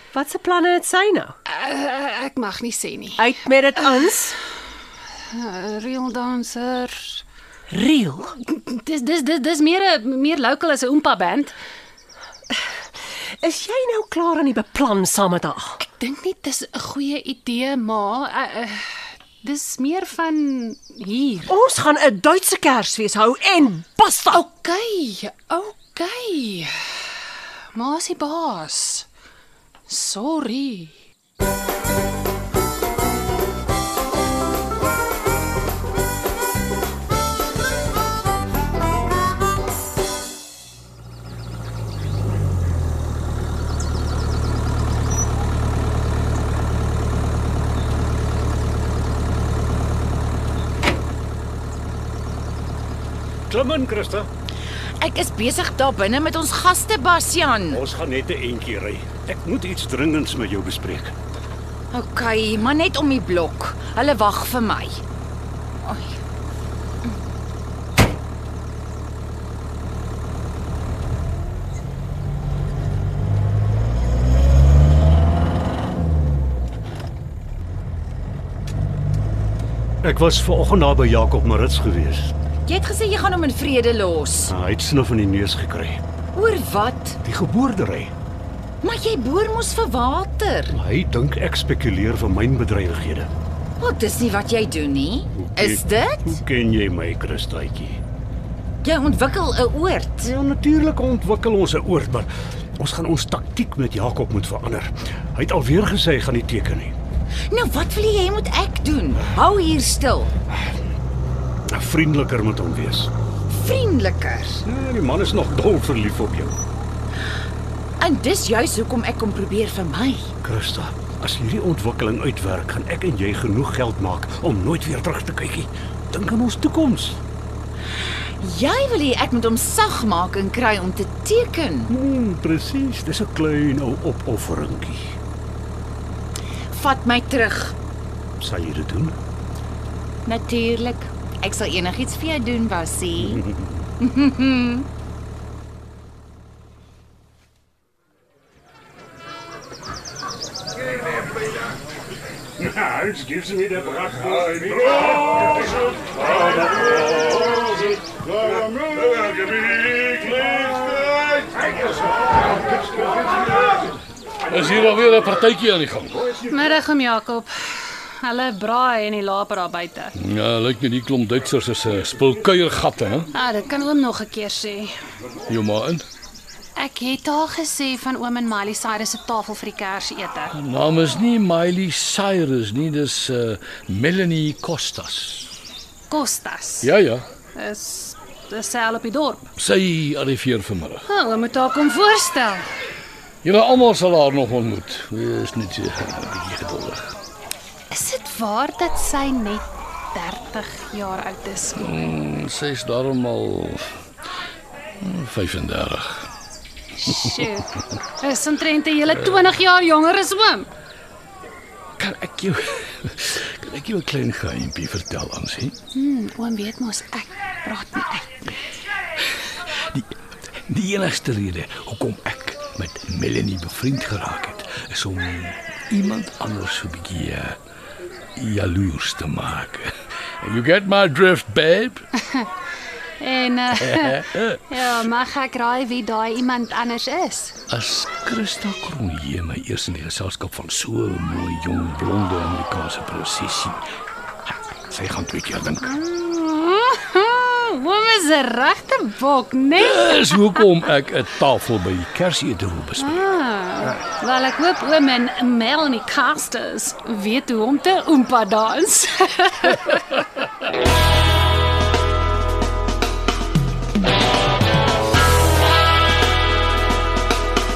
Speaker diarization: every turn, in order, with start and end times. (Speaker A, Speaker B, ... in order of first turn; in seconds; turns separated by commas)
Speaker A: 0.1-1.3, Speaker B: 1.5-3.2, Speaker A: 3.1-4.4, Speaker B: 5.3-7.2, Speaker A: 7.7-8.4, Speaker B: 8.4-11.6, Speaker A: 13.4-15.8, Speaker B: 15.8-21.5, Speaker A: 21.5-24.4, Speaker B: 24.3-26.9, Speaker B: 27.7-29.1, Speaker B: 29.9-30.9, Speaker C: 53.5-54.3, Speaker D: 55.0-57.8, Speaker C: 57.7-61.1, Speaker D: 61.9-65.0, Speaker D: 65.8-66.2, Speaker C: 80.0-82.3, Speaker D: 82.7-84.5, Speaker C: 84.5-86.0, Speaker D: 86.3-87.2, Speaker C: 87.2-88.1, Speaker D: 88.8-90.8, Speaker C: 90.7-93.3, Speaker D: 93.8-96.4, Speaker C: 95.4-98.0, Speaker D: 98.8-100.3, Speaker C: 100.2-106.9, Speaker D: 107.5-110.3, Speaker C: 111.7-113.1, Speaker D: 113.5-114.6, Speaker C: 114.6-116.5, Speaker D: 118.0-120.3, Speaker C: 120.4-127.2, Speaker D: 128.4-131.9, Speaker C: 131.9-135.1, Speaker D: 136.7-137.7, Speaker C: 138.4-139.1, Speaker D: 140.2-143.4, Speaker D: 144.0-144.9, Speaker C: 152.6-155.5, Speaker C: 156.8-158.2, Speaker C: 158.7-161.1, Speaker E: 164.4-166.3, Speaker B: 166.4-170.1, Speaker E: 170.2-173.3, Speaker B: 173.3-174.9, Speaker E: 175.5-176.1, Speaker B: 176.8-180.5, Speaker E: 180.5-185.5, Speaker B: 186.1-186.9, Speaker E: 186.8-187.2, Speaker B: 187.5-189.5, Speaker E: 189.6-191.1, Speaker B: 191.1-192.7, Speaker E: 193.4-197.1, Speaker B: 197.9-201.9, Speaker E: 201.8-203.8, Speaker E: 205.0-206.3, Speaker B: 207.0-210.7, Speaker E: 212.0-215.7, Speaker B: 215.9-218.4, Speaker E: 220.7-227.6, Speaker E: 228.3-232.1, Speaker B: 233.2-237.5, Speaker E: 233.8-234.6, Speaker E: 237.7-243.8, Speaker E: 244.9-246.0, Speaker B: 245.8-250.4, Speaker E: 249.8-253.2, Speaker B: 253.0-260.0